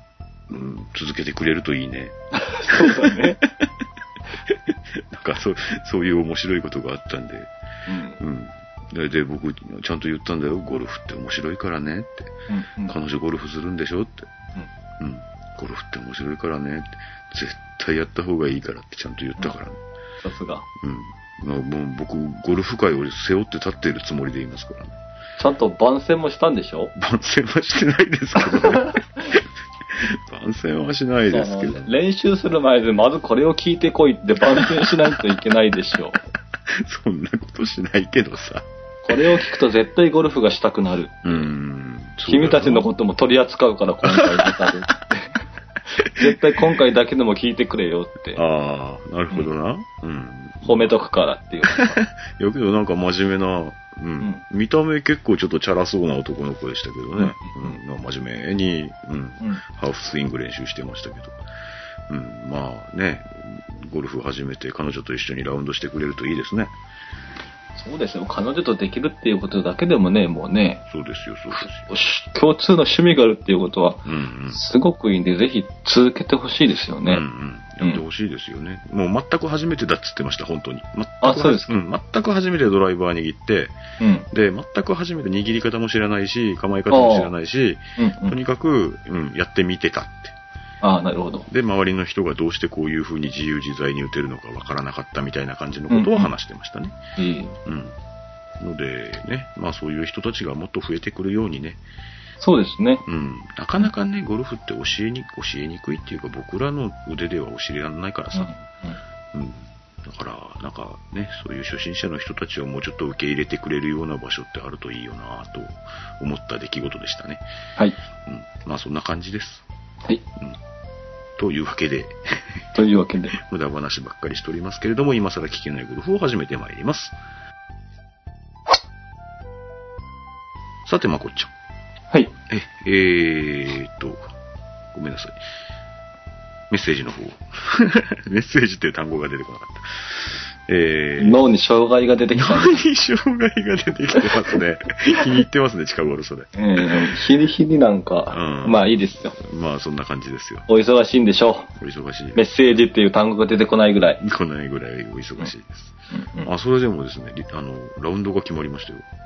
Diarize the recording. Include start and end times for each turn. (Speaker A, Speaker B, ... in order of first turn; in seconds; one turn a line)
Speaker A: 0.5-3.7
Speaker B: 2.3-3.4
Speaker A: 4.5-7.5
Speaker B: 7.9-8.2
Speaker A: 8.2-12.3
Speaker B: 12.5-13.0
Speaker A: 12.9-14.3
Speaker A: 15.0-19.8
Speaker B: 20.2-20.7
Speaker A: 20.8-24.9
Speaker B: 25.4-26.9
Speaker A: 27.0-31.9
Speaker B: 31.3-36.2
Speaker A: 34.6-35.2
Speaker A: 36.7-38.6
Speaker B: 39.0-41.5
Speaker A: 41.2-42.9
Speaker B: 42.3-48.4
Speaker A: 44.0-44.7
Speaker A: 46.0-46.6
Speaker A: 48.4-51.0
Speaker B: 50.6-52.0
Speaker A: 51.7-61.4
Speaker B: 57.2-57.7
Speaker A: 62.1-66.7
Speaker B: 67.8-70.8
Speaker A: 70.9-71.9
Speaker B: 71.5-77.2
Speaker A: 74.0-74.6
Speaker A: 77.0-83.8
Speaker B: 81.2-81.8
Speaker B: 84.0-84.3
Speaker A: 84.3-90.3
Speaker B: 86.9-87.3
Speaker B: 88.0-88.4
Speaker B: 90.8-91.5
Speaker A: 91.5-97.0
Speaker B: 95.9-96.3
Speaker B: 97.2-97.6
Speaker A: 97.7-98.0
Speaker A: 98.6-101.8
Speaker B: 102.4-103.0
Speaker A: 103.1-108.5
Speaker B: 108.3-109.0
Speaker A: 109.3-117.4
Speaker A: 118.3-119.7
Speaker A: 121.4-122.7
Speaker B: 122.8-123.4
Speaker A: 123.3-127.2
Speaker A: 130.9-131.5
Speaker A: 132.5-134.2
Speaker A: 134.9-135.4
Speaker A: 136.7-141.4
Speaker B: 141.2-142.9
Speaker A: 142.3-147.1
Speaker B: 146.6-149.4
Speaker A: 148.3-148.8
Speaker A: 149.3-150.7
Speaker B: 150.7-151.7
Speaker A: 151.8-152.4
Speaker B: 152.3-154.2
Speaker A: 154.2-155.9
Speaker B: 156.1-156.5
Speaker A: 156.4-159.1